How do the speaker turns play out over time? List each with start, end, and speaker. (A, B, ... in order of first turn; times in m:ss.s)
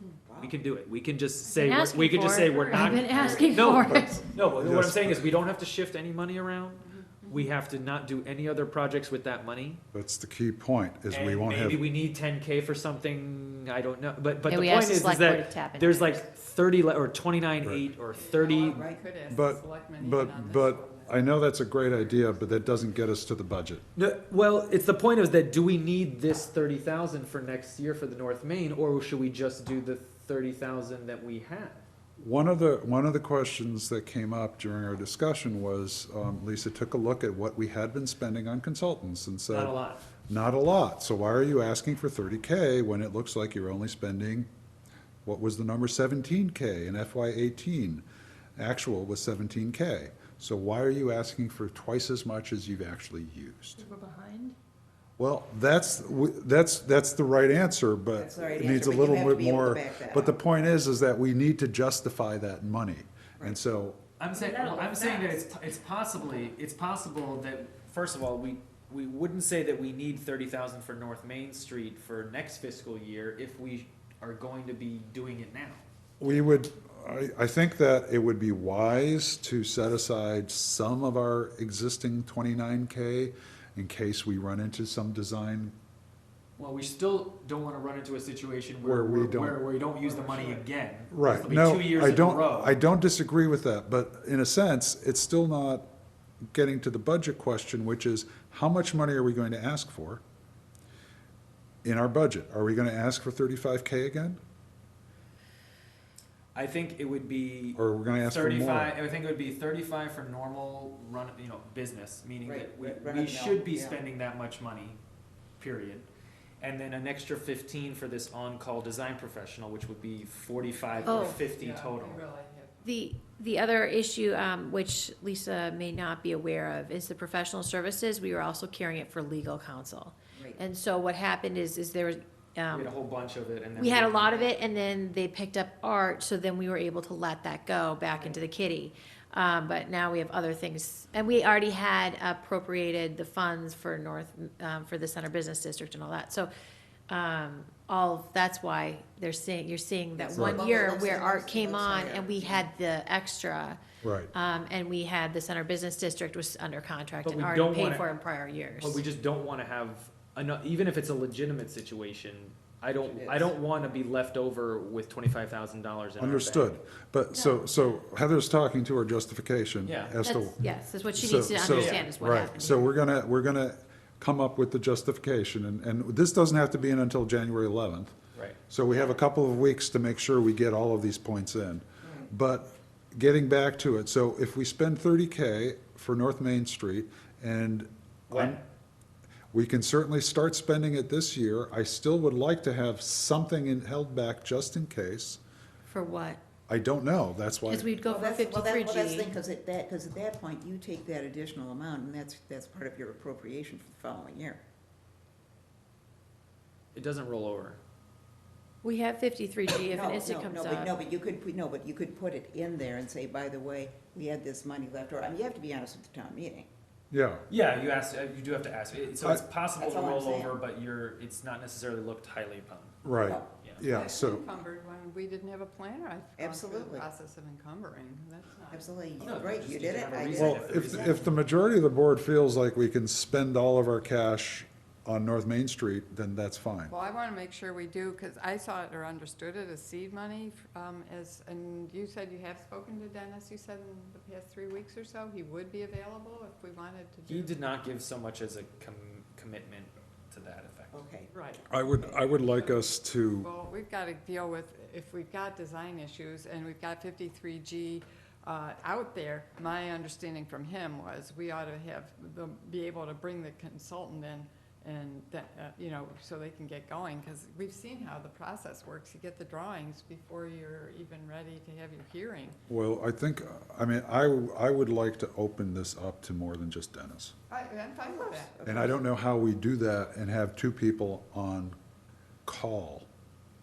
0:00.3-0:00.6 A
0:00.4-0:09.8 B
0:01.5-0:04.2 C
0:03.9-0:05.3 D
0:06.8-0:07.4 E
0:09.9-0:11.8 D
0:11.1-0:18.8 B
0:14.5-0:16.2 C
0:18.1-0:21.2 E
0:18.5-0:19.0 A
0:19.3-0:23.8 D
0:22.0-0:22.6 E
0:24.0-0:31.8 B
0:32.2-0:39.8 D
0:39.5-0:40.0 B
0:40.3-0:44.5 D
0:45.2-0:48.0 D
0:48.6-0:53.9 D
0:55.2-1:04.0 D
0:58.2-1:00.4 A
1:04.2-1:15.8 B
1:04.4-1:05.3 C
1:16.2-1:25.7 D
1:26.6-1:32.7 B
1:28.8-1:29.6 D
1:30.0-1:30.6 E
1:31.1-1:35.9 D
1:36.5-1:40.2 D
1:41.8-1:44.4 D
1:46.5-1:55.0 B
1:47.8-1:49.0 D
1:52.4-1:54.0 A
1:55.6-1:56.1 B
1:56.6-2:02.2 B
2:00.9-2:02.8 E
2:01.1-2:01.4 C
2:02.8-2:12.9 C
2:10.3-2:10.6 A
2:12.7-2:14.5 B
2:13.8-2:26.5 C
2:18.1-2:18.4 A
2:27.1-2:33.8 C
2:30.2-2:32.7 A
2:30.3-2:30.6 D
2:34.0-2:34.3 D
2:34.3-2:39.0 C
2:37.2-2:38.0 B
2:38.8-2:46.8 B
2:43.0-2:43.5 A
2:46.2-2:50.6 D
2:47.3-2:47.7 C
2:49.8-2:50.2 B
2:50.2-2:52.9 C
2:51.1-2:58.1 D
2:51.6-2:52.1 B
2:58.7-3:08.6 D
3:02.0-3:02.3 A
3:08.3-3:08.6 B
3:09.5-3:15.4 D
3:15.8-3:16.4 C
3:16.7-3:17.9 D
3:17.7-3:19.3 C
3:18.0-3:24.6 A
3:26.9-3:27.8 B
3:28.8-3:30.9 C
3:29.9-3:36.7 A
3:37.1-3:37.4 D
3:37.5-3:43.0 B
3:39.8-3:40.6 A
3:43.0-3:44.4 D
3:43.9-3:48.9 E
3:44.0-3:44.4 A
3:46.4-3:47.1 A
3:48.7-3:51.2 A
3:49.2-3:51.4 B
3:50.4-3:56.9 D
3:56.9-4:07.6 E
4:07.3-4:11.0 B
4:10.9-4:11.3 A
4:11.3-4:32.6 E
4:11.7-4:13.5 D
4:32.7-4:37.3 D
4:37.5-4:38.6 E
4:38.1-4:39.0 A
4:38.6-4:41.8 D
4:42.4-4:43.1 D